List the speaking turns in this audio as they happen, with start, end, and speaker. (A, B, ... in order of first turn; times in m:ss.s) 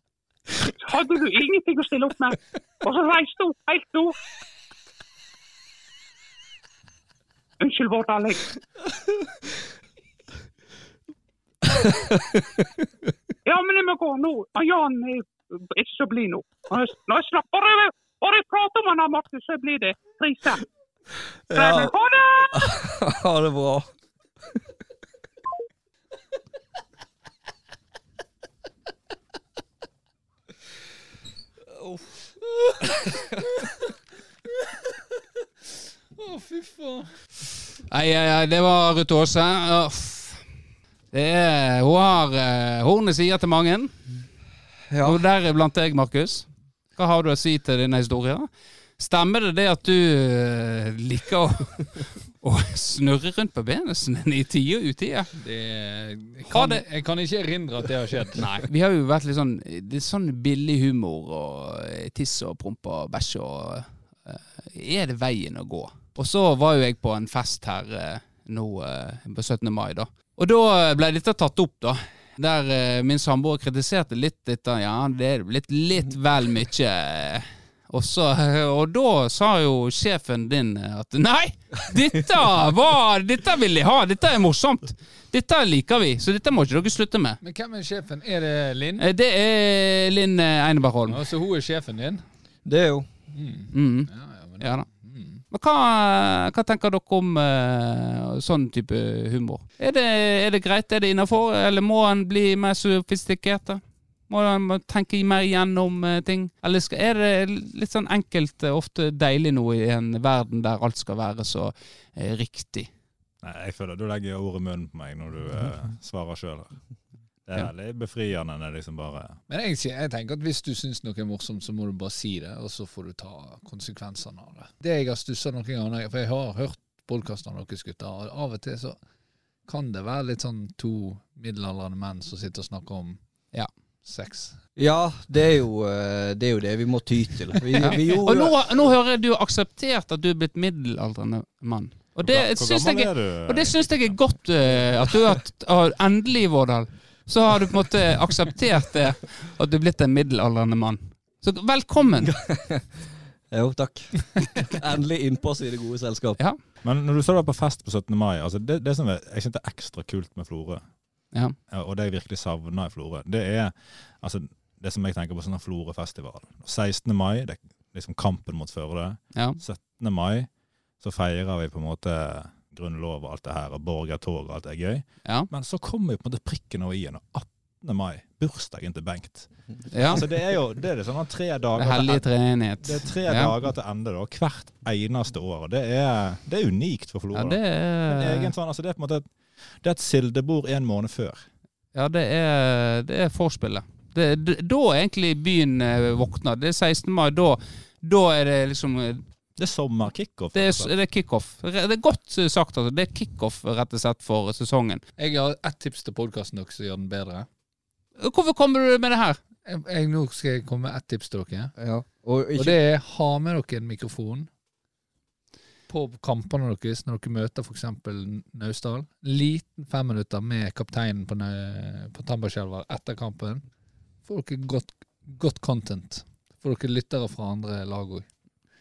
0:00.6-0:04.2 A
0:07.6-0:08.6 A
0:11.7-0:12.5 B
0:13.5-0:20.6 A
0:21.5-0:21.9 B
0:21.5-0:22.8 A
0:22.5-0:23.9 B
0:31.7-0:32.0 B
0:36.2-0:37.1 C
0:37.9-0:40.4 D
0:41.1-0:44.0 D
0:44.9-0:45.2 B
0:45.0-0:55.3 D
0:55.4-0:58.5 C
0:56.5-0:56.8 D
0:58.4-1:27.4 D
1:27.4-1:29.0 C
1:29.0-1:31.2 D
1:31.1-1:32.2 C
1:32.6-1:33.1 B
1:33.3-1:35.4 C
1:33.7-1:34.9 D
1:35.5-1:52.9 D
1:53.4-1:56.8 E
1:57.5-1:59.4 E
1:59.5-2:09.0 C
2:09.7-2:13.2 C
2:14.0-2:14.6 C
2:14.8-2:18.8 B
2:17.8-2:32.4 D
2:22.2-2:24.2 E
2:32.2-2:33.0 B
2:33.5-2:36.4 B
2:36.8-2:40.8 E
2:41.7-2:50.5 E
2:49.3-2:49.6 D
2:51.0-2:59.5 E
2:59.9-3:00.2 D
3:00.1-3:09.3 E
3:01.8-3:03.6 D
3:07.3-3:08.5 D
3:09.8-3:11.5 E
3:11.9-3:19.2 D
3:19.6-3:20.9 E
3:20.5-3:25.0 D
3:25.2-3:27.5 C
3:28.2-3:29.4 D
3:29.7-3:31.7 C
3:31.8-3:32.8 B
3:32.6-3:34.5 C
3:35.9-3:43.6 C
3:44.2-3:48.3 C